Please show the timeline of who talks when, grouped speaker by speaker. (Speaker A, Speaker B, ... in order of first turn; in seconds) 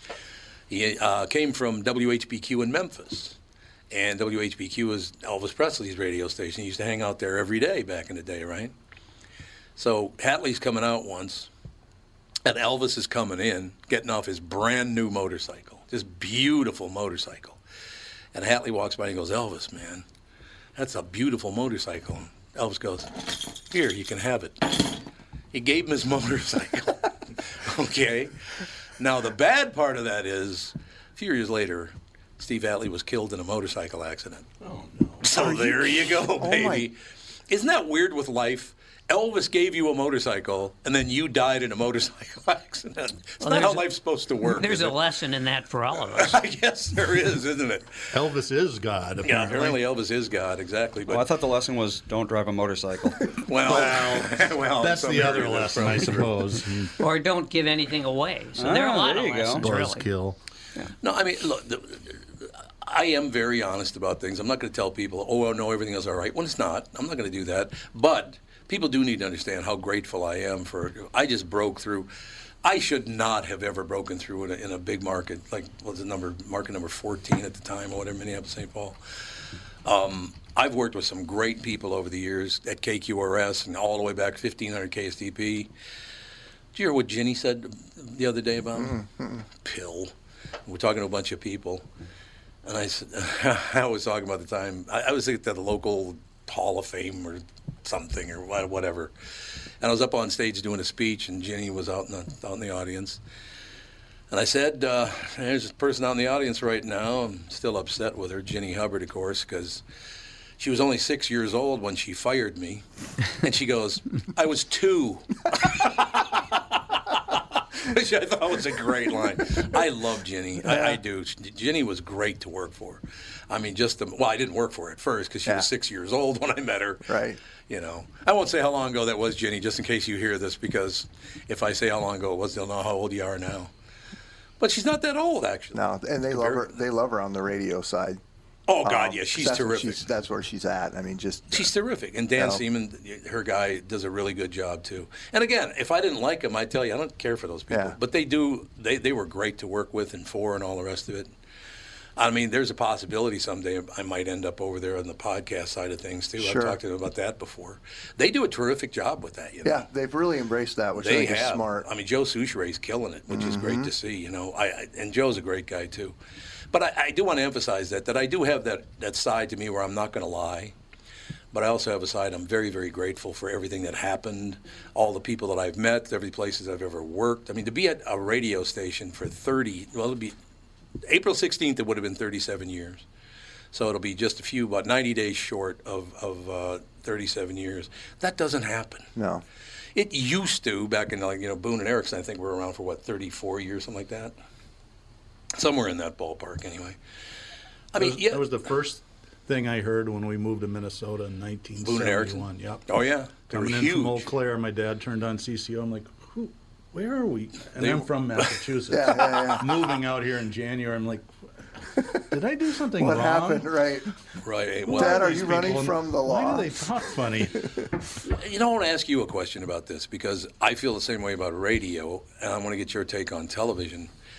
Speaker A: 0.7-3.4, 3.9-8.7, 9.8-11.5, 12.4-17.6, 18.3-20.1, 20.8-25.0, 25.5-28.4, 29.0-34.5, 35.2-37.0, 37.5-45.0, 46.1-48.1, 49.2-51.3, 53.4-56.5, 61.0-72.1, 72.6-79.0, 79.8-85.7, 86.7-89.0, 89.6-90.1, 90.7-91.9, 92.6-99.1, 99.8-103.2, 104.3-109.8, 110.6-112.8, 113.4-127.1, 127.7-133.7, 134.6-136.7, 138.7-140.0, 141.5-151.3, 152.2-159.8, 160.9-166.2, 166.7-170.8, 171.5-180.4, 181.1-183.1, 183.7-189.1, 189.9-194.3, 195.6-197.0, 197.9-198.5, 201.8-204.3, 207.8-208.6, 214.4-215.8, 218.2-224.1
Speaker B: 34.6-35.2, 48.1-49.8, 53.6-56.9, 59.6-60.4, 198.0-202.8, 203.5-211.3, 212.3-213.7, 214.9-217.7
Speaker C: 35.3-36.9, 88.8-89.4, 120.6-121.0, 127.1-127.4, 135.8-138.2, 138.8-141.7, 142.4-142.6, 147.7-148.0, 156.4-156.8, 159.6-161.9, 163.3-163.9, 189.2-189.4, 208.9-209.7, 213.0-214.1, 214.9-217.0
Speaker D: 43.4-43.9, 44.5-46.4, 57.0-60.1
Speaker E: 51.1-53.4, 58.6-59.7